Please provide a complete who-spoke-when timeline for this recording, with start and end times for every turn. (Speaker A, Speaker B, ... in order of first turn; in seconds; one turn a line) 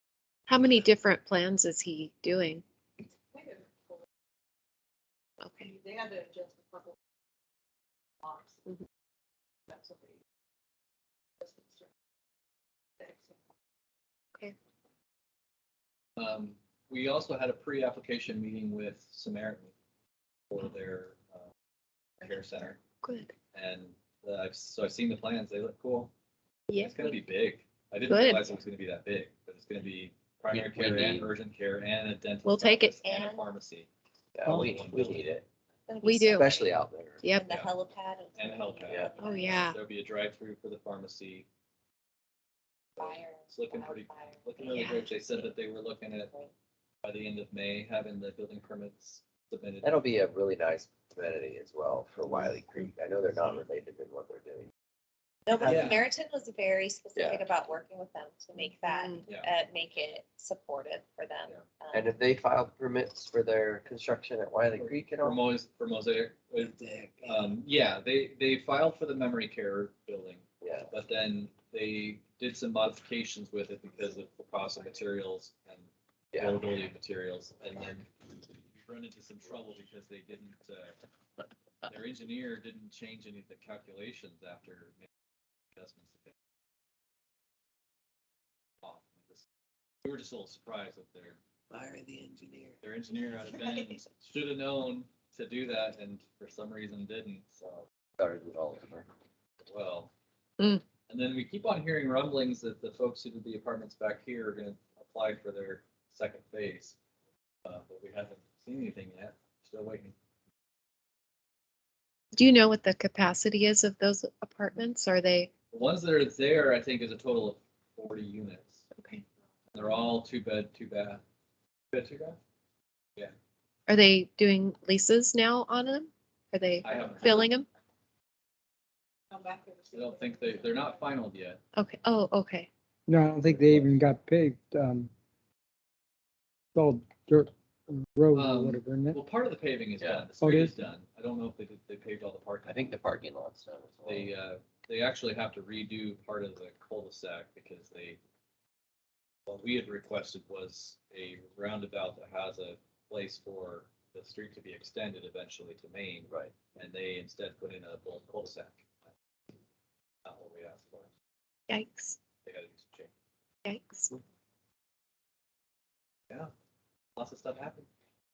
Speaker A: 0.5-2.6
Speaker B: 3.3-4.0
Speaker A: 5.4-5.7
Speaker B: 5.6-7.0
Speaker B: 8.2-8.6
Speaker B: 9.7-10.2
Speaker B: 11.4-11.9
Speaker B: 13.0-13.4
Speaker C: 16.2-19.7
Speaker C: 20.5-21.5
Speaker C: 22.2-22.8
Speaker A: 23.0-23.3
Speaker C: 23.5-26.1
Speaker A: 26.7-27.1
Speaker C: 26.7-33.9
Speaker A: 28.1-28.6
Speaker D: 30.5-31.3
Speaker A: 32.4-33.0
Speaker E: 33.0-33.5
Speaker D: 34.3-35.5
Speaker C: 34.5-35.2
Speaker E: 35.9-36.7
Speaker A: 36.0-36.6
Speaker D: 36.3-37.2
Speaker A: 37.2-37.5
Speaker E: 37.3-39.7
Speaker C: 37.5-37.7
Speaker C: 38.3-41.5
Speaker A: 39.2-39.8
Speaker C: 43.0-46.3
Speaker E: 43.0-45.6
Speaker A: 44.7-45.0
Speaker E: 46.3-46.5
Speaker C: 47.0-50.1
Speaker D: 49.8-54.7
Speaker E: 55.5-62.1
Speaker D: 55.6-56.0
Speaker C: 55.6-56.0
Speaker D: 57.1-57.4
Speaker A: 58.8-59.2
Speaker C: 59.2-59.5
Speaker D: 61.9-65.4
Speaker C: 64.8-78.1
Speaker D: 66.6-67.4
Speaker D: 70.6-70.9
Speaker D: 76.3-76.6
Speaker C: 78.7-81.0
Speaker C: 81.9-85.0
Speaker C: 85.8-86.3
Speaker C: 88.8-89.4
Speaker C: 90.0-91.4
Speaker D: 91.7-92.8
Speaker C: 92.8-97.9
Speaker D: 93.5-93.8
Speaker D: 98.2-99.1
Speaker C: 99.7-100.1
Speaker C: 101.1-107.0
Speaker C: 107.7-110.1
Speaker A: 112.3-115.5
Speaker C: 115.7-118.8
Speaker A: 118.9-119.2
Speaker C: 119.7-121.2
Speaker C: 121.9-122.4
Speaker A: 123.9-127.7
Speaker C: 126.8-127.5
Speaker B: 129.3-131.0
Speaker C: 129.9-131.6
Speaker A: 131.7-132.7
Speaker F: 133.1-135.1
Speaker D: 133.4-134.0
Speaker F: 136.7-139.2
Speaker C: 138.3-142.9
Speaker D: 140.0-140.2
Speaker F: 140.4-140.8
Speaker D: 142.7-144.3
Speaker C: 144.0-148.2
Speaker C: 149.5-158.9
Speaker D: 156.3-156.5
Speaker C: 160.2-161.1
Speaker A: 161.7-162.2
Speaker C: 162.4-163.1
Speaker A: 163.6-164.1
Speaker C: 167.2-167.9